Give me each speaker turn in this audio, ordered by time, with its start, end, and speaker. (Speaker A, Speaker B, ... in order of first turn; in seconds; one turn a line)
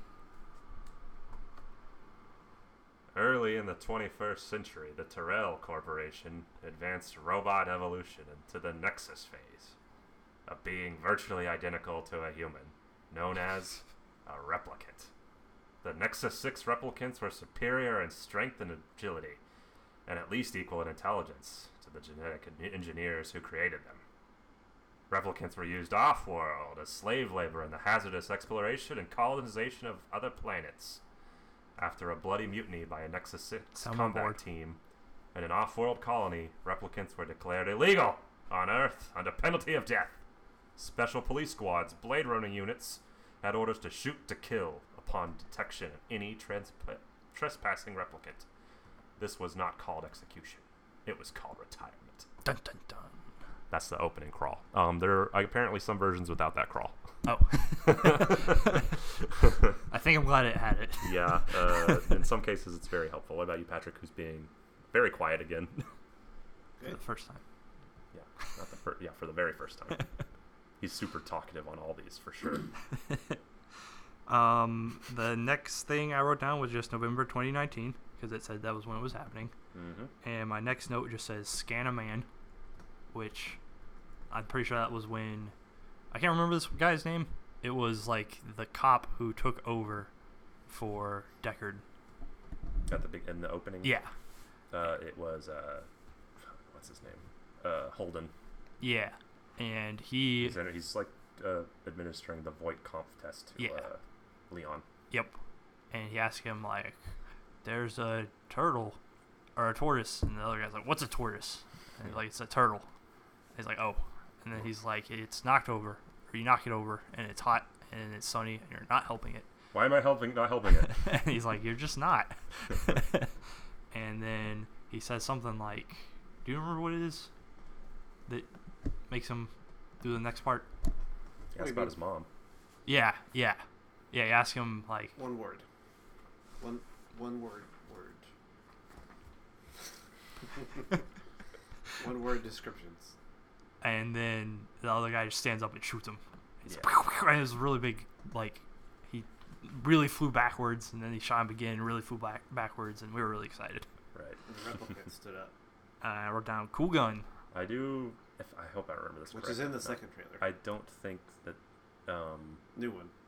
Speaker A: 3.1-9.7
Speaker A: 10.4-15.1
Speaker A: 15.8-19.4
Speaker A: 20.1-24.0
Speaker A: 25.1-31.0
Speaker A: 31.8-34.8
Speaker B: 33.8-34.4
Speaker A: 35.3-40.2
Speaker A: 40.8-48.5
Speaker A: 49.2-52.3
Speaker B: 52.4-53.2
Speaker A: 53.7-57.0
Speaker B: 57.2-58.9
Speaker A: 57.8-59.8
Speaker B: 59.9-62.0
Speaker A: 61.0-65.9
Speaker B: 66.8-67.4
Speaker A: 68.1-70.0
Speaker A: 70.8-72.7
Speaker B: 73.1-73.4
Speaker B: 74.3-79.5
Speaker A: 79.7-80.1
Speaker B: 80.2-82.3
Speaker B: 83.1-83.6
Speaker B: 84.3-85.5
Speaker B: 86.1-90.1
Speaker B: 90.7-91.8
Speaker A: 92.9-94.0
Speaker B: 93.8-94.1
Speaker A: 94.7-95.9
Speaker A: 96.7-98.3
Speaker B: 98.8-100.6
Speaker A: 100.4-104.8
Speaker B: 103.6-103.8
Speaker B: 105.1-105.3
Speaker B: 105.9-107.0
Speaker B: 107.6-109.0
Speaker B: 109.5-112.9
Speaker B: 113.5-119.5
Speaker A: 119.7-121.0
Speaker B: 120.9-123.3
Speaker B: 123.9-127.3
Speaker B: 129.1-130.7
Speaker A: 131.5-132.3
Speaker C: 131.6-131.9
Speaker B: 132.8-135.2
Speaker C: 135.2-135.6
Speaker C: 136.6-138.2
Speaker C: 142.0-143.1
Speaker B: 143.8-153.8
Speaker A: 154.1-154.4
Speaker C: 154.4-155.5
Speaker B: 156.0-157.3
Speaker A: 157.5-162.6
Speaker C: 159.3-160.5
Speaker C: 162.7-163.1